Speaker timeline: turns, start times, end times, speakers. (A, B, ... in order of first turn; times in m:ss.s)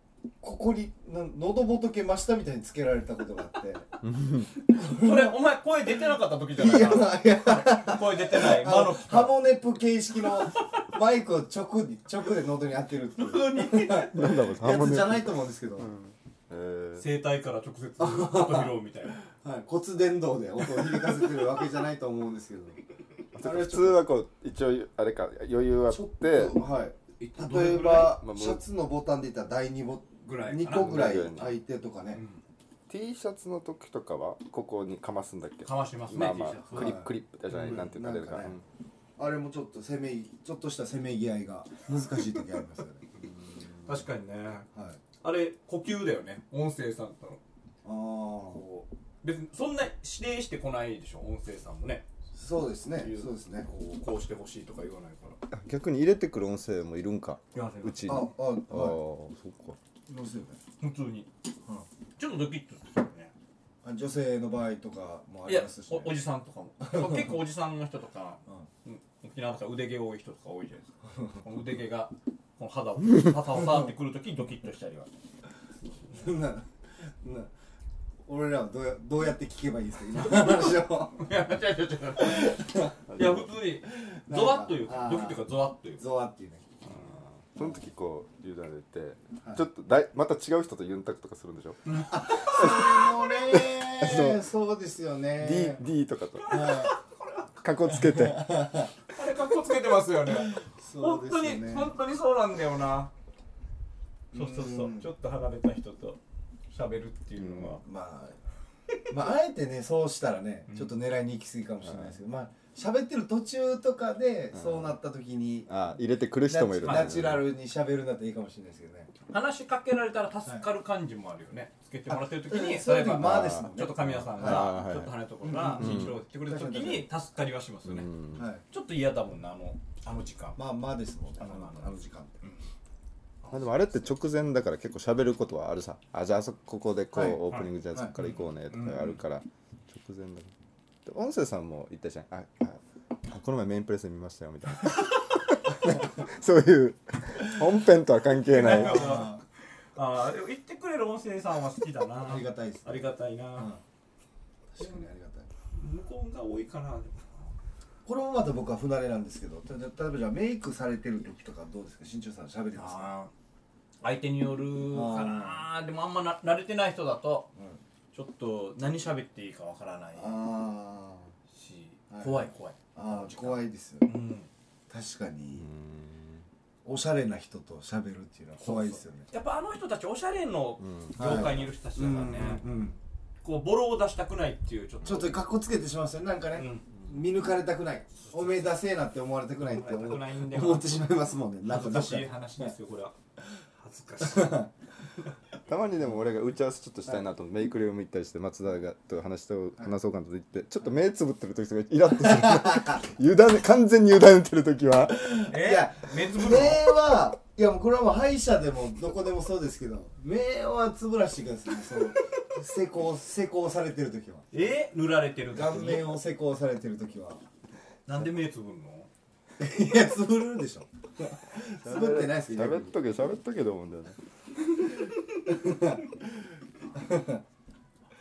0:00.4-0:03.9 A
0:04.0-0:04.5 B
0:04.6-0:09.3 C
0:04.7-0:05.4 A
0:06.6-0:15.9 A
0:10.2-0:10.8 C
0:13.2-0:14.4 C
0:14.1-0:17.0 B
0:17.0-0:19.2 C
0:18.0-0:22.8 A
0:20.6-0:21.4 C
0:23.3-0:24.0 A
0:23.3-0:26.6 B
0:25.9-0:32.2 A
0:27.2-0:28.2 C
0:28.1-0:28.6 B
0:30.2-0:31.4 C
0:30.7-0:31.6 B
0:32.1-0:32.4 C
0:32.9-0:38.6 B
0:35.6-0:37.0 C
0:36.7-0:38.6 A
0:37.5-0:37.8 C
0:39.2-0:43.0 A
0:43.8-0:44.7 C
0:44.7-0:45.0 A
0:45.2-0:47.4 C
0:47.8-0:48.6 A
0:48.5-0:52.0 C
0:52.3-0:53.7 A
0:53.0-0:55.4 C
0:55.5-0:59.8 B
0:57.5-0:58.3 C
0:58.1-0:59.0 A
1:00.1-1:00.6 A
1:00.8-1:01.3 C
1:02.2-1:03.3 C
1:03.8-1:06.2 A
1:05.4-1:15.1 C
1:06.8-1:07.4 A
1:16.1-1:17.5 A
1:18.2-1:21.2 A
1:21.2-1:26.0 C
1:22.2-1:23.0 A
1:23.1-1:23.4 B
1:23.9-1:25.4 A
1:26.0-1:26.7 A
1:26.8-1:27.2 C
1:27.5-1:31.8 B
1:31.8-1:33.2 C
1:32.1-1:35.8 A
1:32.6-1:32.8 B
1:34.0-1:34.4 B
1:35.4-1:36.9 B
1:36.5-1:37.5 C
1:36.5-1:36.9 A
1:37.6-1:38.4 B
1:38.0-1:38.9 A
1:39.1-1:43.1 C
1:40.4-1:41.9 A
1:44.3-1:45.1 A
1:44.3-1:46.2 C
1:46.7-1:47.8 C
1:47.4-1:47.8 B
1:47.8-1:48.4 A
1:49.1-1:55.7 A
1:50.7-1:50.9 C
1:51.8-1:52.1 B
1:54.5-1:55.0 B
1:55.7-1:57.4 B
1:56.5-1:59.1 A
1:56.8-1:57.1 C
1:59.3-2:08.1 C
2:02.1-2:04.8 A
2:03.2-2:05.1 B
2:05.4-2:07.1 A
2:05.8-2:06.2 B
2:07.8-2:08.4 B
2:08.4-2:08.6 A
2:08.7-2:10.6 C
2:10.6-2:12.4 A
2:11.4-2:12.6 C
2:13.4-2:13.8 C
2:13.5-2:20.5 B
2:17.1-2:17.4 A
2:17.4-2:19.2 C
2:21.0-2:29.0 B
2:28.5-2:29.4 C
2:28.6-2:29.4 A
2:30.0-2:33.7 C
2:32.2-2:33.8 A
2:34.7-2:35.5 A
2:34.8-2:35.0 C
2:35.7-2:37.5 C
2:38.0-2:43.1 A
2:42.7-2:43.3 C
2:44.0-2:47.5 C
2:44.9-2:45.6 A
2:47.5-2:47.8 A
2:48.1-2:50.4 C
2:50.1-2:51.3 A
2:51.5-2:54.5 C
2:52.1-2:54.1 A
2:54.9-2:55.7 A
2:55.5-2:56.4 B
2:56.8-2:59.3 A
2:58.6-3:05.3 C
3:00.8-3:01.6 B
3:01.2-3:03.0 A
3:05.0-3:12.7 A
3:06.5-3:06.9 C
3:08.2-3:08.7 C
3:09.7-3:11.0 C
3:11.6-3:13.1 C
3:13.8-3:14.6 C
3:14.2-3:14.7 A
3:15.7-3:25.4 B
3:22.3-3:23.0 A
3:25.2-3:34.5 A
3:25.5-3:26.9 C
3:32.1-3:32.5 C
3:34.5-3:36.1 C
3:35.5-3:37.4 A
3:38.1-3:39.1 C
3:39.6-3:42.9 A
3:41.8-3:44.2 B
3:45.4-3:46.1 A
3:47.0-3:47.4 A